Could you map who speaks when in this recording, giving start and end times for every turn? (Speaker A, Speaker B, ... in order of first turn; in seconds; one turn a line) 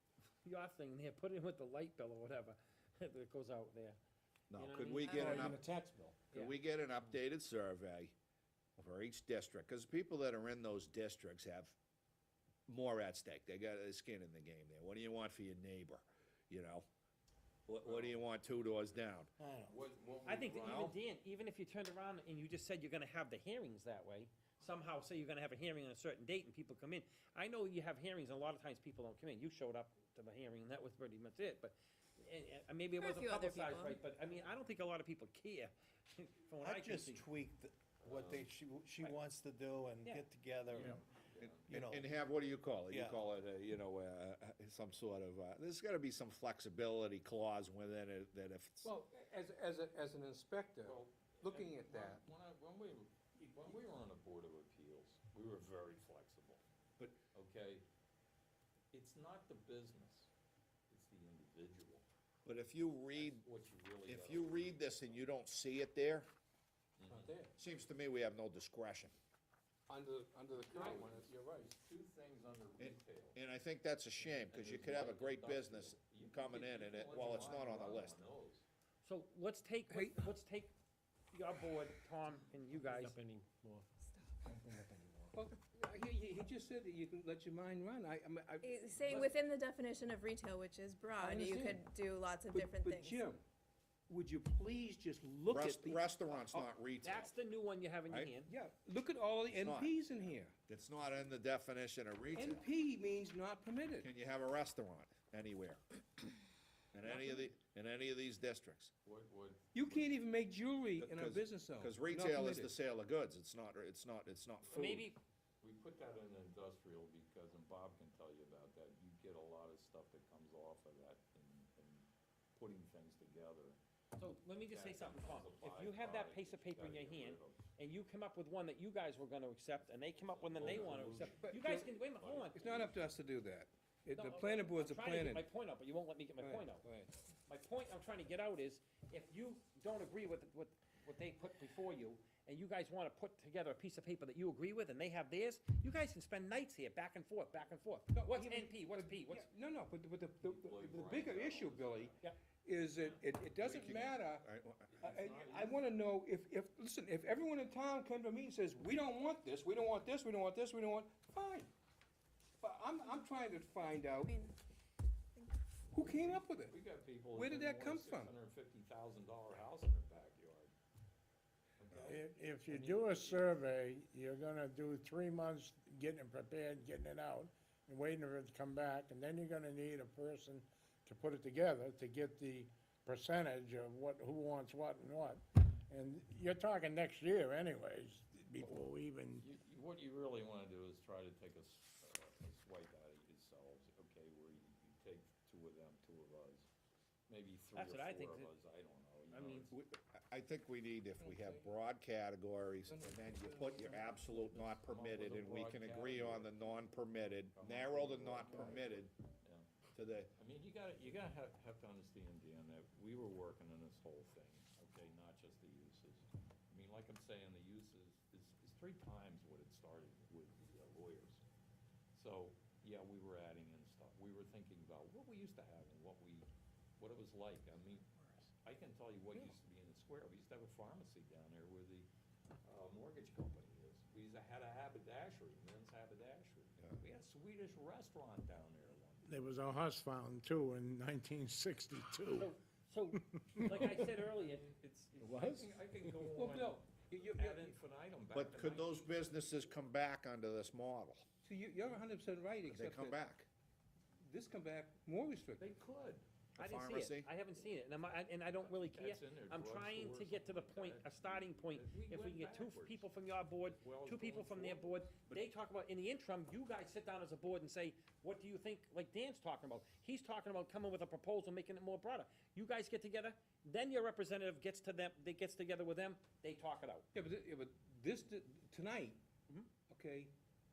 Speaker A: 0.4-4.0
Speaker B: 4.5-5.6
Speaker A: 4.5-5.4
Speaker C: 5.2-6.0
Speaker B: 6.3-8.1
Speaker B: 8.8-11.7
Speaker B: 12.7-16.9
Speaker B: 17.7-19.3
Speaker D: 17.8-18.8
Speaker E: 19.4-19.8
Speaker D: 19.6-21.0
Speaker A: 20.2-37.2
Speaker B: 20.6-20.9
Speaker F: 33.0-34.0
Speaker E: 36.6-41.0
Speaker D: 38.0-38.5
Speaker D: 40.7-41.6
Speaker B: 41.4-48.9
Speaker E: 41.7-42.1
Speaker E: 42.9-43.2
Speaker G: 48.8-52.2
Speaker D: 50.8-56.6
Speaker D: 57.3-57.9
Speaker D: 58.9-60.3
Speaker D: 60.9-62.0
Speaker B: 62.4-63.4
Speaker D: 63.1-65.2
Speaker B: 64.0-66.3
Speaker D: 67.0-67.5
Speaker G: 67.1-67.5
Speaker B: 67.6-69.1
Speaker G: 69.9-71.7
Speaker D: 70.7-73.4
Speaker B: 72.8-78.2
Speaker D: 74.2-78.6
Speaker A: 79.0-80.7
Speaker G: 79.9-80.3
Speaker A: 81.3-83.2
Speaker C: 82.8-83.9
Speaker C: 84.5-85.4
Speaker G: 85.3-89.1
Speaker F: 88.6-93.3
Speaker A: 89.1-89.3
Speaker G: 91.2-91.8
Speaker G: 92.5-93.4
Speaker G: 94.1-96.7
Speaker B: 95.5-97.3
Speaker A: 97.0-98.5
Speaker G: 98.4-100.5
Speaker B: 99.5-100.0
Speaker B: 100.7-102.7
Speaker G: 102.3-104.1
Speaker B: 104.0-105.8
Speaker B: 106.9-108.9
Speaker G: 107.0-107.5
Speaker D: 109.0-110.2
Speaker G: 109.7-112.7
Speaker B: 111.0-115.0
Speaker D: 114.7-115.1
Speaker A: 114.7-115.2
Speaker D: 115.6-123.8
Speaker A: 124.2-132.5
Speaker D: 124.7-127.6
Speaker D: 129.9-133.0
Speaker G: 131.4-131.9
Speaker G: 132.5-135.5
Speaker A: 134.1-149.5
Speaker G: 136.4-137.1
Speaker G: 148.1-154.5
Speaker D: 150.4-152.3
Speaker D: 152.9-153.2
Speaker B: 153.6-155.2
Speaker D: 154.9-155.9
Speaker G: 155.0-161.7
Speaker G: 162.6-164.3
Speaker F: 164.2-164.5
Speaker F: 165.3-165.6
Speaker G: 165.9-166.8
Speaker D: 166.1-170.7
Speaker G: 167.3-168.3
Speaker D: 171.8-173.4
Speaker H: 172.0-189.4
Speaker D: 189.4-196.7
Speaker D: 197.3-199.7
Speaker A: 197.7-198.5
Speaker A: 199.3-199.7
Speaker B: 199.7-209.1
Speaker G: 201.2-201.7
Speaker G: 202.8-204.4
Speaker D: 204.7-206.5
Speaker D: 207.5-209.7
Speaker B: 209.9-210.3
Speaker D: 210.4-221.4
Speaker D: 222.1-232.1
Speaker D: 232.6-239.3
Speaker H: 239.2-242.5
Speaker A: 242.3-244.7
Speaker H: 243.3-244.1
Speaker D: 244.1-249.2
Speaker E: 245.2-245.7
Speaker G: 246.3-247.8
Speaker A: 246.4-246.7
Speaker B: 248.3-251.2
Speaker G: 251.4-253.2
Speaker B: 252.7-253.5
Speaker G: 254.2-255.7
Speaker D: 255.6-256.3
Speaker B: 256.6-257.3
Speaker A: 256.6-277.1
Speaker D: 258.5-265.1
Speaker G: 277.1-279.2
Speaker G: 279.8-280.3